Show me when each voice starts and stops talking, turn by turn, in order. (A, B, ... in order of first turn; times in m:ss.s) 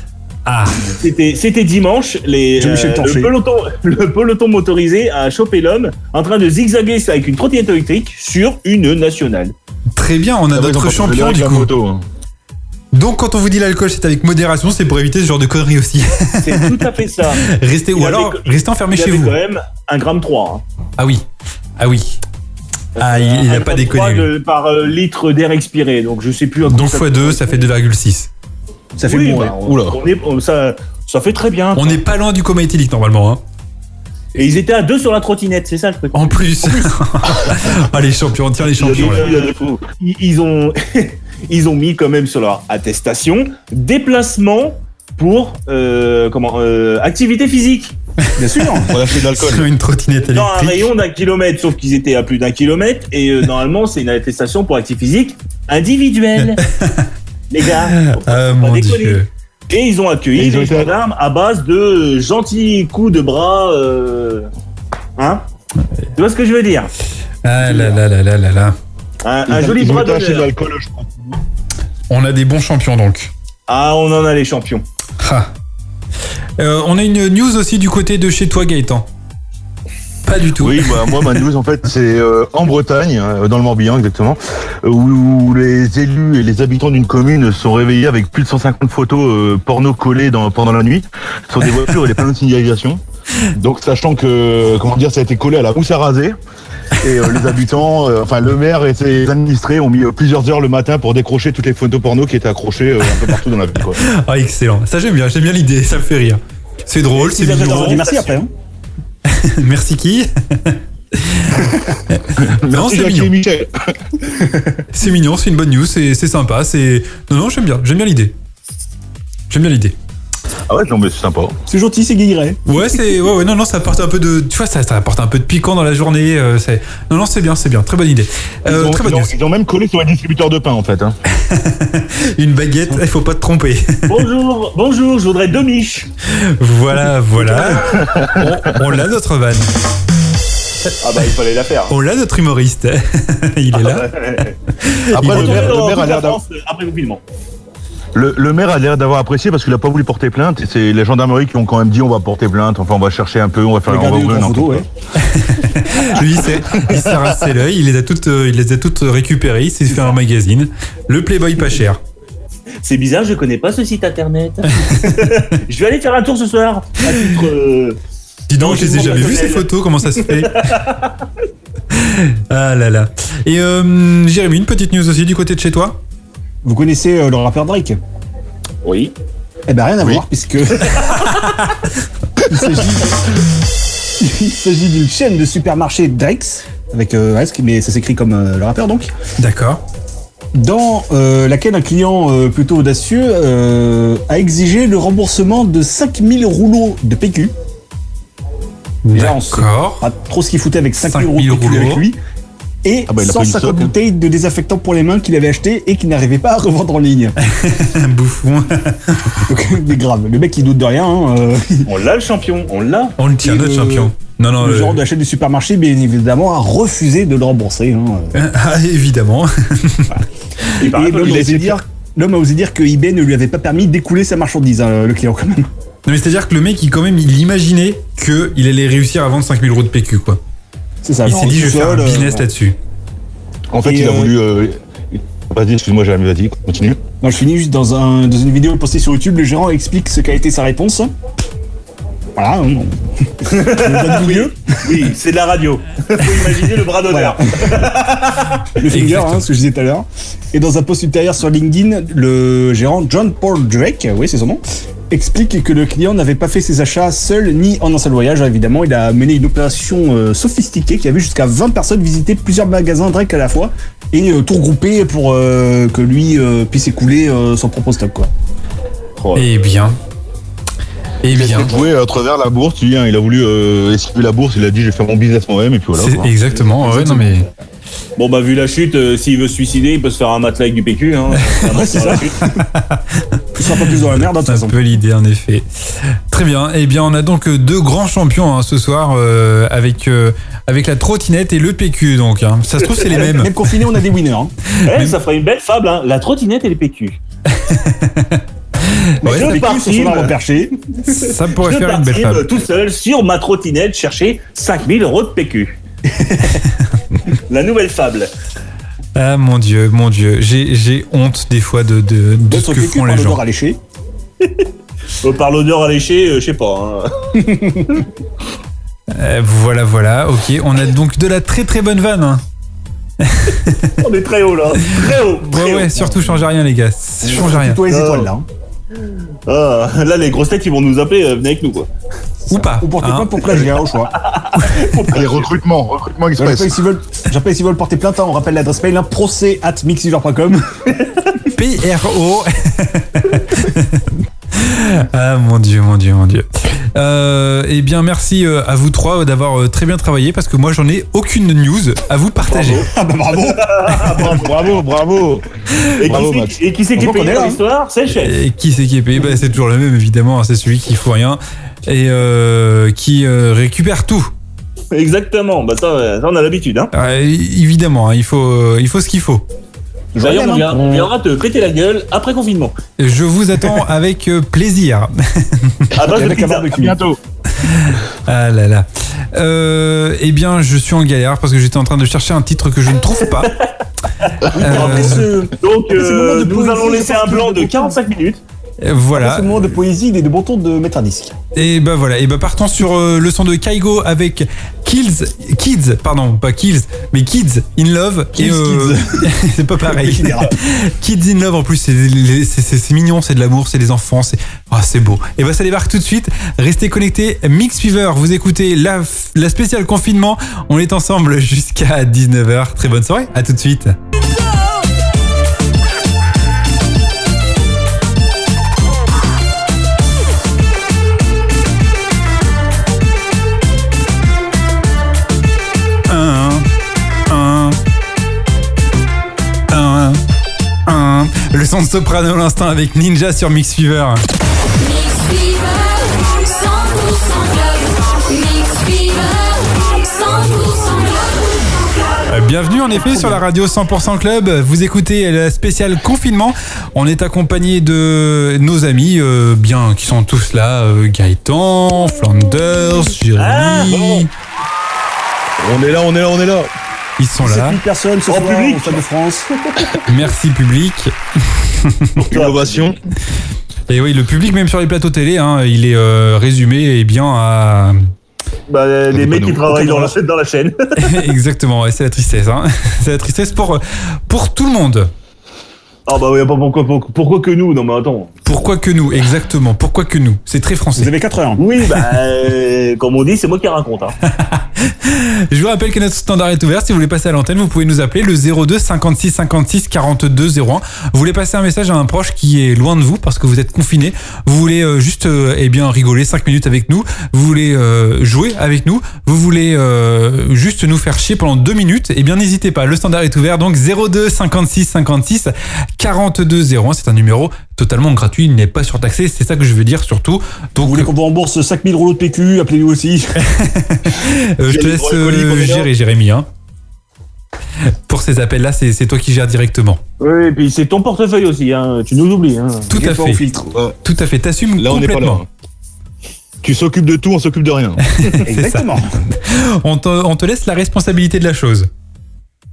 0:00.4-0:00.9 A
0:00.8-0:09.5 B
0:02.6-0:03.3 C
0:10.0-0:11.7 A
0:10.5-0:12.0 D
0:12.9-0:16.6 A
0:16.4-0:17.4 B
0:17.3-0:19.3 A
0:17.9-0:20.6 B
0:21.0-0:21.2 A
0:21.8-0:22.2 A
0:23.0-0:27.7 B
0:23.0-0:24.3 A
0:26.7-0:28.3 A
0:29.0-0:29.8 C
0:29.0-0:32.0 B
0:29.6-0:30.0 D
0:31.7-0:33.4 A
0:34.3-0:36.9 B
0:36.1-0:39.3 A
0:38.8-0:47.9 B
0:48.4-0:48.9 C
0:48.8-0:50.9 A
0:48.9-0:49.7 D
0:50.3-0:56.6 B
0:56.7-0:57.1 A
0:57.5-1:04.5 B
0:57.8-0:59.3 A
1:00.3-1:00.9 D
1:05.2-1:05.4 B
1:06.2-1:06.9 B
1:07.4-1:08.8 A
1:07.6-1:08.0 B
1:09.2-1:10.5 B
1:09.5-1:11.4 D
1:12.1-1:13.3 A
1:13.7-1:14.8 B
1:15.2-1:15.5 A
1:16.6-1:19.1 A
1:20.2-1:21.2 A
1:20.6-1:33.0 D
1:33.5-1:36.4 D
1:37.0-1:44.0 D
1:44.0-1:48.0 A
1:47.1-1:48.4 B
1:47.5-1:48.5 C
1:49.2-1:53.3 A
1:52.4-1:53.9 D
1:54.5-1:54.8 C
1:54.9-1:58.3 A
1:59.5-1:59.9 A
2:00.7-2:01.6 D
2:01.7-2:03.0 C
2:02.6-2:09.3 A
2:08.6-2:11.2 D
2:11.3-2:14.2 A
2:14.1-2:16.1 B
2:16.3-2:19.7 A
2:17.7-2:19.0 D
2:21.0-2:21.9 B
2:21.9-2:24.1 A
2:23.7-2:24.6 B
2:24.8-2:25.7 A
2:25.1-2:26.4 D
2:25.1-2:27.2 B
2:28.1-2:34.8 D
2:33.9-2:34.8 C
2:35.2-2:42.0 A
2:42.8-2:48.0 B
2:48.5-2:50.7 A
2:48.6-2:51.1 B
2:51.9-2:56.0 A
2:56.6-2:58.0 C
2:58.8-2:59.1 B
2:59.7-3:01.0 C
3:01.2-3:01.8 A
3:02.5-3:03.1 C
3:04.2-3:09.1 C
3:09.4-3:09.8 A
3:10.5-3:17.5 C
3:19.0-3:20.0 A
3:19.1-3:22.2 C
3:21.0-3:22.0 A
3:22.8-3:27.3 C
3:23.1-3:23.9 D
3:27.4-3:29.4 A
3:29.5-3:31.9 C
3:31.8-3:33.2 B
3:33.2-3:35.0 A
3:33.4-3:38.4 C
3:38.3-3:40.2 A
3:40.8-3:41.8 B
3:40.8-3:45.7 C
3:46.0-3:50.4 A
3:51.0-3:52.4 C
3:51.2-3:52.8 A
3:53.7-3:57.0 D
3:53.8-3:54.3 C
3:57.2-4:01.1 C
4:02.4-4:04.6 C
4:03.4-4:08.6 B
4:07.1-4:07.7 C
4:08.7-4:28.3 C
4:08.9-4:09.4 A
4:29.2-4:29.5 B
4:29.3-4:30.0 A
4:31.2-4:31.7 A
4:31.2-4:36.3 D
4:36.0-4:37.4 A
4:36.8-4:37.5 C
4:38.2-4:42.4 B
4:41.7-4:42.5 C
4:42.5-4:53.5 A
4:43.5-4:44.8 C
4:53.1-4:54.5 C
4:54.8-4:55.2 A
4:54.8-4:57.2 B
4:57.5-4:59.6 A
4:59.2-5:00.8 C
4:59.2-5:00.3 B
5:01.1-5:02.4 A
5:01.5-5:05.8 B
5:06.1-5:06.6 C
5:07.5-5:08.3 B
5:09.1-5:13.4 A
5:12.5-5:13.8 C
5:14.4-5:14.6 B
5:15.2-5:17.4 B
5:17.4-5:18.0 C
5:19.1-5:22.4 A
5:23.2-5:23.9 A
5:24.0-5:26.0 B
5:24.9-5:27.8 A
5:26.0-5:26.4 C
5:27.2-5:28.4 C
5:27.9-5:28.3 B
5:29.5-5:31.9 B
5:32.5-5:33.4 A
5:32.5-5:34.1 C
5:34.1-5:35.5 B
5:34.5-5:34.8 A
5:35.1-5:36.8 D
5:36.4-5:40.7 C
5:41.5-5:52.9 A
5:52.5-5:52.8 B
5:52.8-5:54.2 C
5:53.5-5:54.5 B
5:54.1-5:55.4 D
5:56.0-5:58.4 B
5:56.0-5:56.6 D
5:57.0-5:57.6 C
5:58.1-6:04.3 A
6:04.9-6:06.9 B
6:06.9-6:09.4 A
6:10.1-6:11.1 C
6:10.2-6:12.7 B
6:13.0-6:15.9 A
6:15.9-6:16.7 B
6:16.0-6:17.0 C
6:16.7-6:17.2 D
6:17.6-6:23.5 A
6:24.5-6:28.0 C
6:24.6-6:25.3 A
6:24.7-6:28.4 B
6:28.8-6:29.6 A
6:29.1-6:31.3 C
6:31.5-6:54.0 A
6:38.3-6:39.3 C
6:39.8-6:40.5 C
7:06.1-7:06.6 A
7:07.3-7:07.8 A
7:09.7-7:10.2 A
7:10.8-7:14.2 A
7:14.8-7:21.7 E
7:22.3-7:34.3 A
7:22.9-7:23.4 C
7:33.4-7:34.3 B
7:35.6-7:36.7 D
7:37.2-7:37.8 A
7:37.4-7:39.5 C
7:38.3-7:39.0 B
7:40.0-7:42.1 A
7:42.2-7:42.9 B
7:42.3-7:43.0 D
7:43.9-7:48.0 A
7:48.7-7:51.2 B
7:49.1-7:49.8 D
7:51.0-7:55.1 A
7:56.1-7:58.3 B
7:58.4-8:01.1 A
8:01.0-8:01.6 C
8:01.6-8:04.1 B
8:04.2-8:31.1 A
8:30.8-8:33.4 C
8:33.4-8:36.5 A
8:34.6-8:35.9 D
8:37.9-8:40.0 A
8:40.2-8:42.9 B
8:42.9-8:43.4 A
8:42.9-8:43.7 C
8:43.7-8:44.0 D
8:44.0-8:45.4 A
8:44.8-8:45.5 D
8:46.6-8:48.0 D
8:48.2-8:51.9 A
8:48.4-8:49.1 C